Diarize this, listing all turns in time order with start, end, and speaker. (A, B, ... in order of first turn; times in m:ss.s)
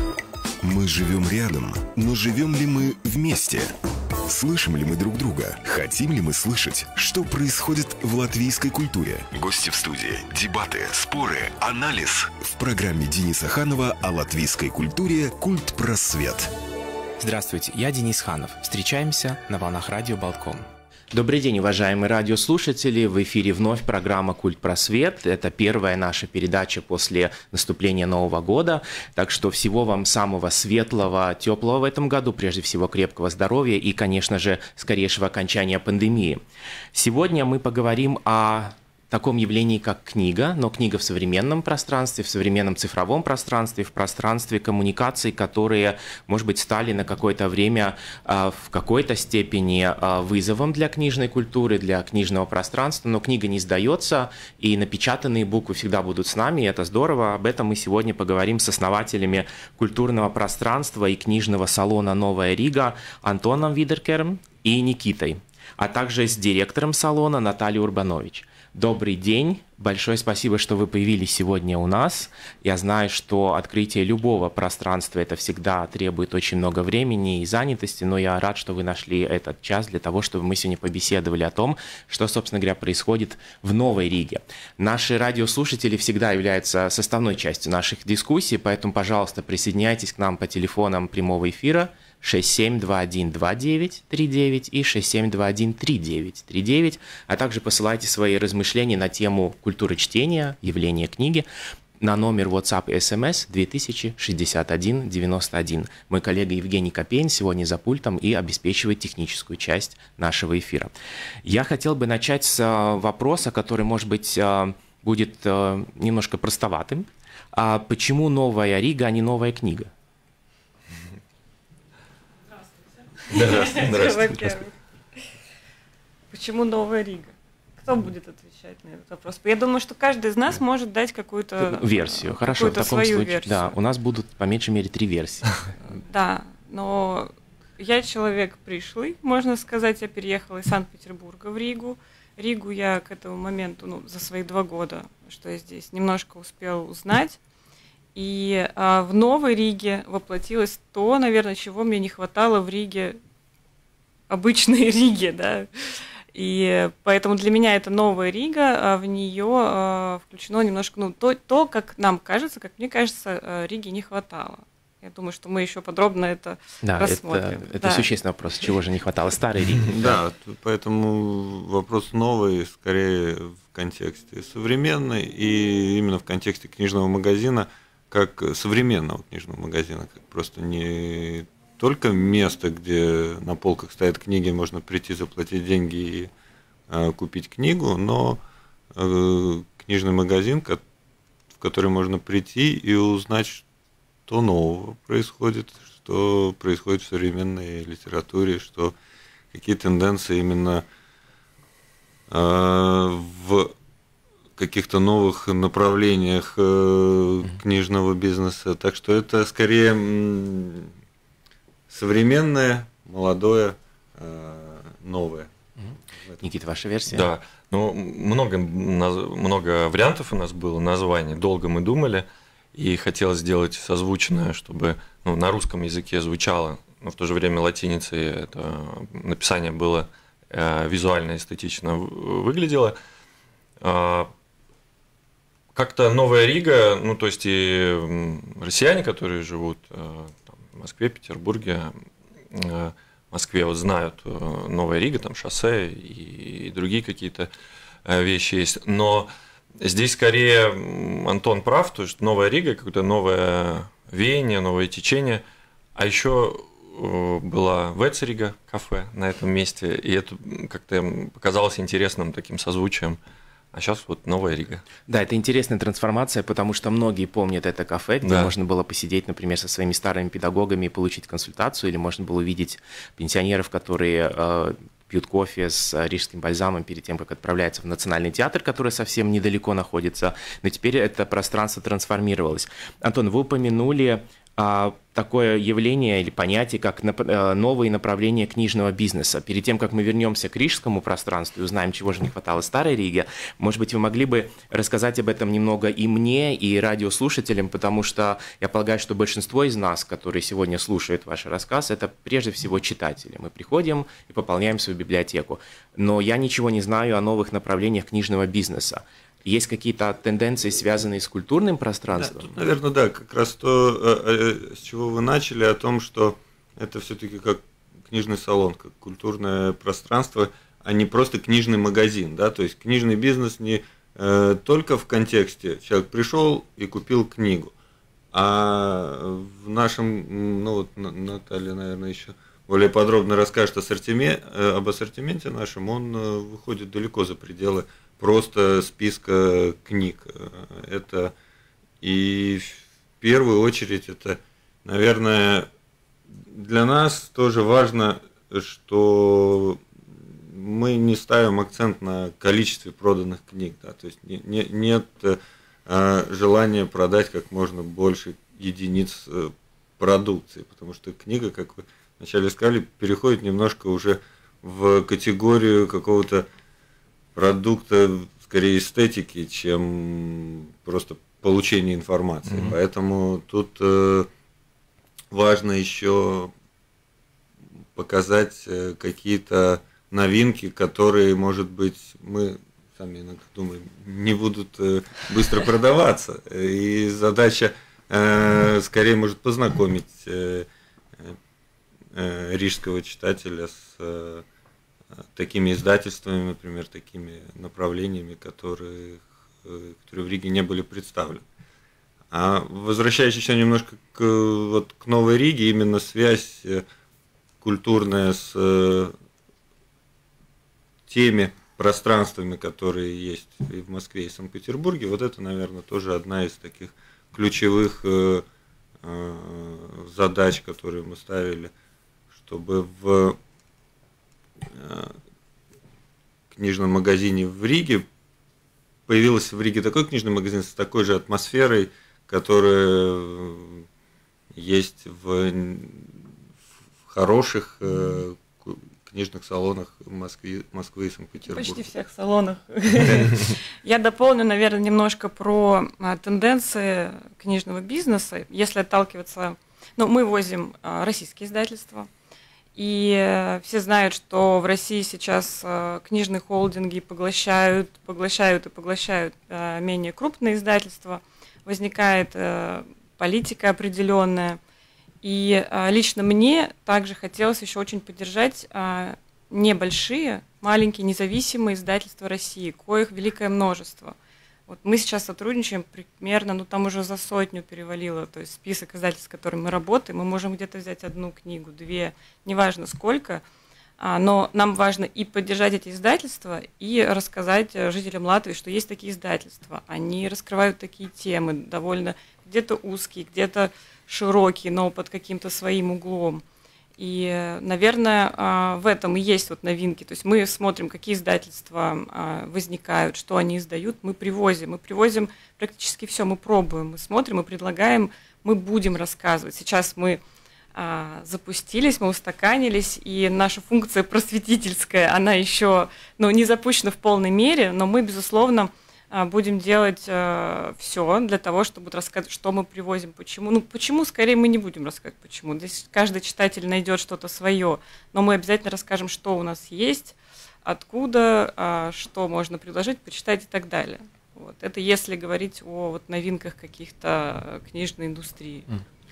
0:00.6-0:03.7 A
0:04.2-0:16.5 A
0:17.2-0:36.4 B
0:36.9-1:41.5 B
1:42.0-1:50.9 B
1:51.4-1:59.9 B
2:03.2-2:05.3 C
2:03.3-2:04.5 D
2:06.3-2:13.8 C
2:11.6-2:15.5 B
2:15.9-2:27.4 C
2:28.2-2:33.2 C
2:34.3-2:35.7 C
2:36.3-2:48.1 C
2:46.8-2:50.2 B
2:49.9-3:06.3 E
3:06.9-3:08.4 E
3:09.0-3:10.8 E
3:11.6-3:13.6 E
3:14.3-3:19.0 E
3:19.5-3:20.8 E
3:22.3-3:23.7 E
3:24.6-3:30.9 E
3:31.9-3:35.5 E
3:36.2-3:36.4 E
3:36.4-3:37.3 B
3:37.1-3:53.0 D
3:53.8-3:54.3 D
3:55.8-4:02.0 D
4:02.5-4:07.5 D
4:08.0-4:09.3 D
4:09.8-4:15.4 D
4:16.0-4:23.2 D
4:23.7-4:24.8 D
4:25.1-5:12.5 B
4:28.2-4:28.5 D
5:12.2-5:27.7 E
5:28.3-5:41.3 E
5:42.0-5:45.7 E
5:46.5-5:49.8 E
5:50.4-6:06.5 E
6:07.4-6:14.3 E
6:12.5-6:12.8 D
6:15.3-6:16.5 E
6:18.0-6:30.7 E
6:32.1-6:34.4 E
6:35.2-6:41.4 E
6:42.3-6:46.8 E
6:47.6-6:49.1 E
6:51.1-6:58.4 E
6:59.0-7:01.7 E
7:02.4-7:03.4 E
7:04.7-7:05.2 E
7:06.5-7:08.1 E
7:09.1-7:13.8 E
7:14.6-7:16.1 E
7:17.1-7:21.8 E
7:21.5-7:32.1 C
7:23.0-7:23.4 E
7:32.8-7:44.6 C
7:45.2-7:54.2 C
7:54.7-8:03.4 C
8:04.0-8:16.4 C
8:17.0-8:30.2 C
8:30.8-8:58.7 C